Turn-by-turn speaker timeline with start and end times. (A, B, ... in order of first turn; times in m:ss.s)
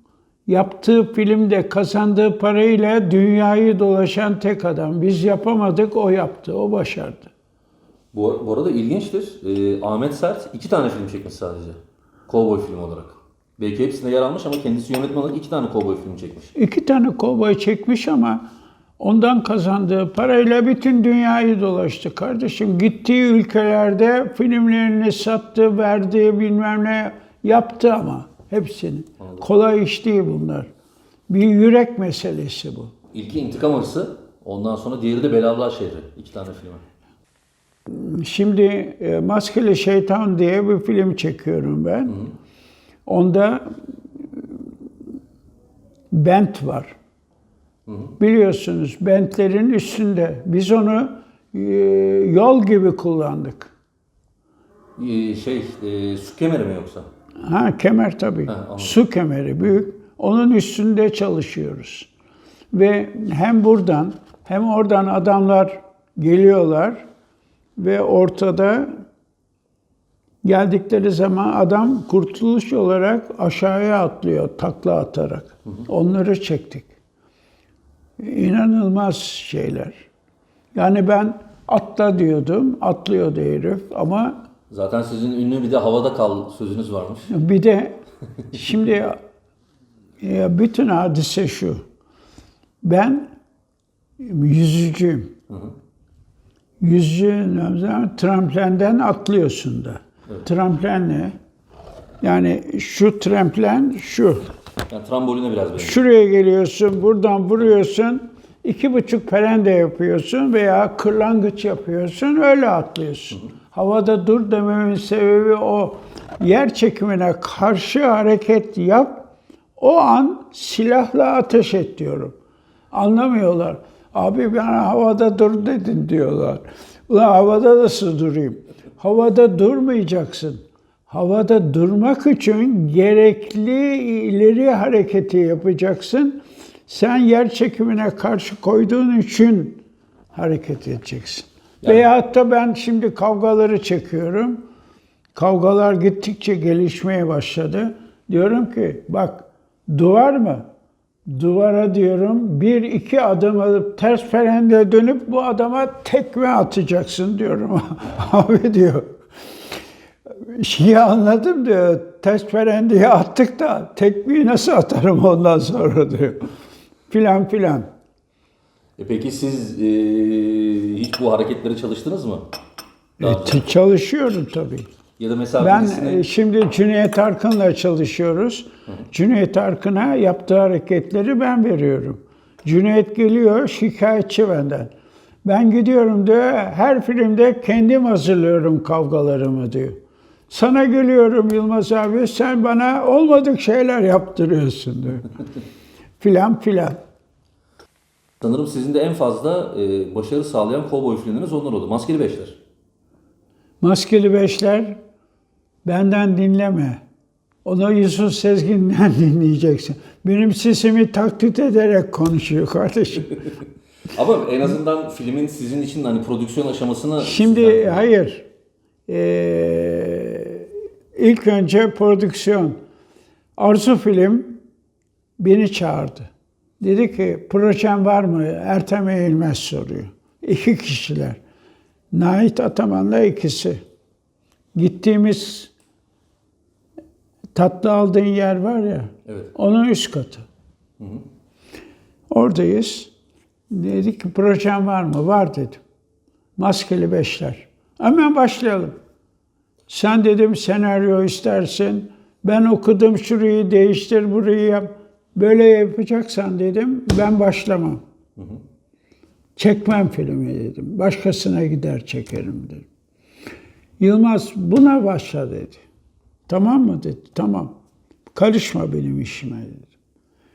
0:00.5-0:07.3 A
0:08.1-0:11.8 B
0:12.3-0:16.5 B
0:16.6-0:18.5 A
0:19.0-0:30.7 A
0:29.2-0:29.5 B
0:31.3-0:32.9 A
0:33.1-0:36.8 B
0:37.9-0:42.3 A
0:43.1-0:43.7 A
0:46.1-0:47.0 A
0:47.9-0:48.2 B
0:48.2-0:53.7 A
0:55.0-0:57.1 B
0:57.4-1:02.1 A
0:58.5-0:59.0 B
1:02.7-1:07.0 A
1:07.8-1:08.9 A
1:10.4-1:16.9 A
1:18.2-1:20.0 A
1:20.8-1:24.4 A
1:24.7-1:27.3 B
1:27.3-1:28.0 A
1:28.5-1:29.2 A
1:30.2-1:31.8 A
1:32.8-1:33.3 A
1:34.2-1:35.3 A
1:36.8-1:41.4 A
1:42.2-1:44.4 A
1:44.9-1:46.0 B
1:45.8-2:02.4 A
2:02.9-2:24.6 A
2:25.3-2:30.6 A
2:31.3-2:39.1 A
2:40.4-2:46.4 A
2:47.1-2:47.9 A
2:49.0-2:52.5 B
2:53.2-2:53.6 B
2:53.2-2:54.9 A
2:55.2-2:56.2 B
2:55.6-3:04.9 A
3:05.4-3:15.3 A
3:16.2-3:17.0 A
3:18.4-3:22.6 B
3:23.8-3:25.0 A
3:25.8-3:27.0 A
3:27.6-3:33.4 A
3:34.1-3:38.1 B
3:37.2-3:38.4 A
3:39.1-3:42.8 A
3:43.6-3:44.6 A
3:45.4-3:51.4 A
3:52.1-3:53.8 A
3:54.8-3:55.7 A
3:57.5-4:00.4 A
3:59.3-3:59.5 B
4:02.3-4:03.1 A
4:03.7-4:05.8 A
4:06.6-4:09.0 A
4:09.9-4:18.0 A
4:19.6-4:22.9 A
4:24.0-4:25.8 A
4:26.5-4:27.7 A
4:28.3-4:29.9 A